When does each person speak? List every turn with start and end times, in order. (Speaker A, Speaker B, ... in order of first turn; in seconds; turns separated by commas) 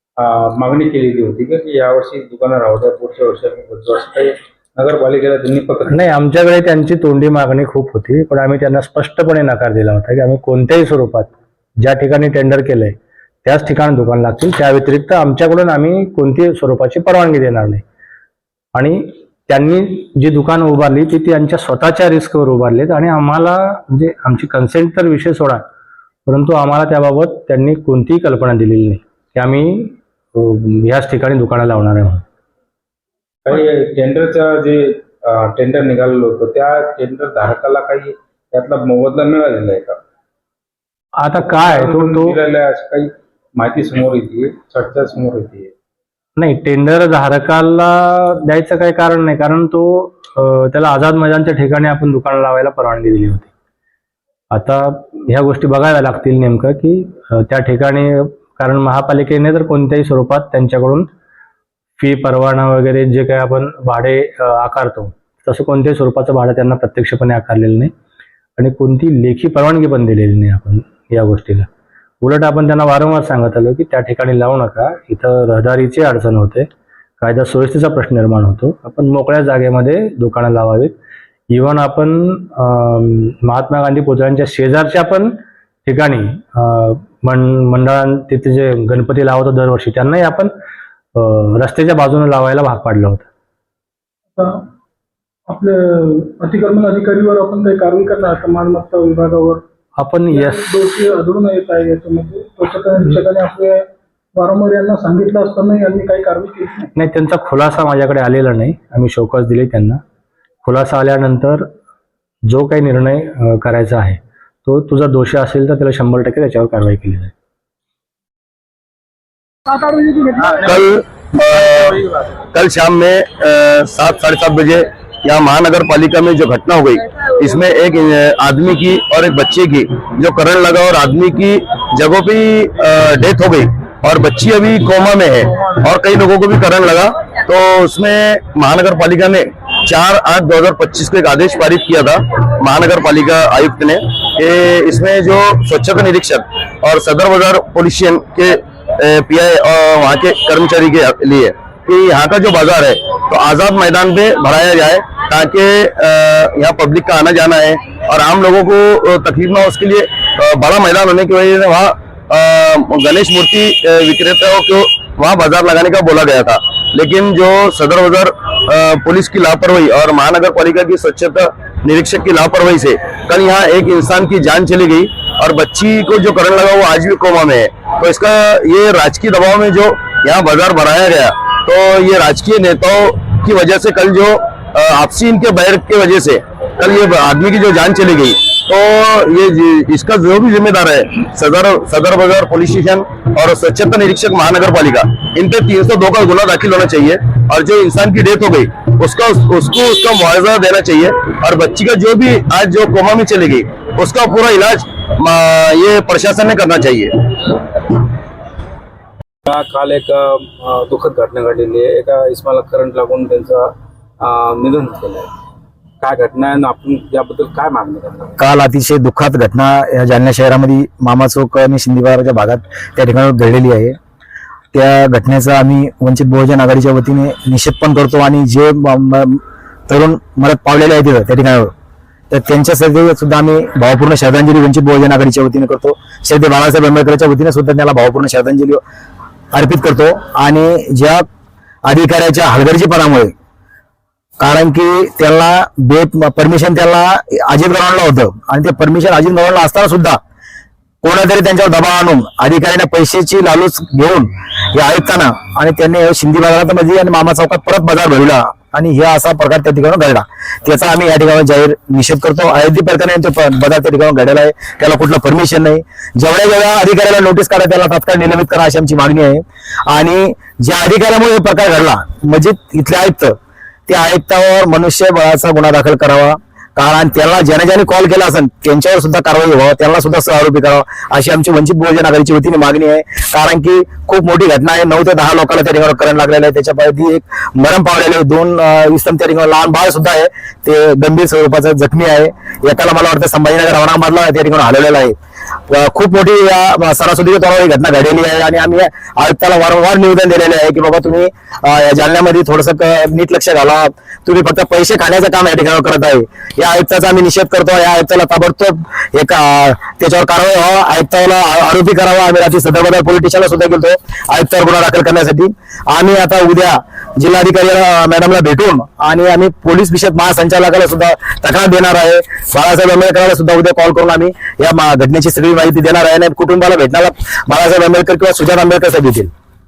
Speaker A: 0.2-6.0, Speaker B: 5.9-17.8, Speaker B: 18.8-25.6, Speaker B: 26.3-32.2, Speaker A: 33.5-40.0, Speaker B: 41.2-42.4, Speaker A: 41.5-45.7, Speaker B: 46.4-53.5, Speaker B: 54.5-61.1, Speaker B: 62.0-67.9, Speaker B: 68.6-71.7, Speaker B: 72.2-76.7, Speaker B: 77.2-80.9, Speaker B: 81.5-85.3, Speaker B: 85.9-90.5, Speaker B: 91.2-93.3, Speaker C: 94.4-94.6, Speaker C: 95.5-99.6, Speaker B: 100.0-100.6, Speaker C: 100.3-106.9, Speaker B: 107.0-110.0, Speaker B: 110.6-111.7, Speaker B: 112.5-117.3, Speaker C: 119.7-120.9, Speaker D: 120.4-207.6, Speaker A: 209.5-215.3, Speaker A: 216.0-218.4, Speaker E: 218.4-224.0, Speaker E: 224.7-231.7, Speaker E: 232.3-238.8, Speaker E: 239.5-241.3, Speaker E: 241.8-243.3, Speaker E: 244.4-250.2, Speaker E: 251.0-295.1, Speaker E: 295.7-329.3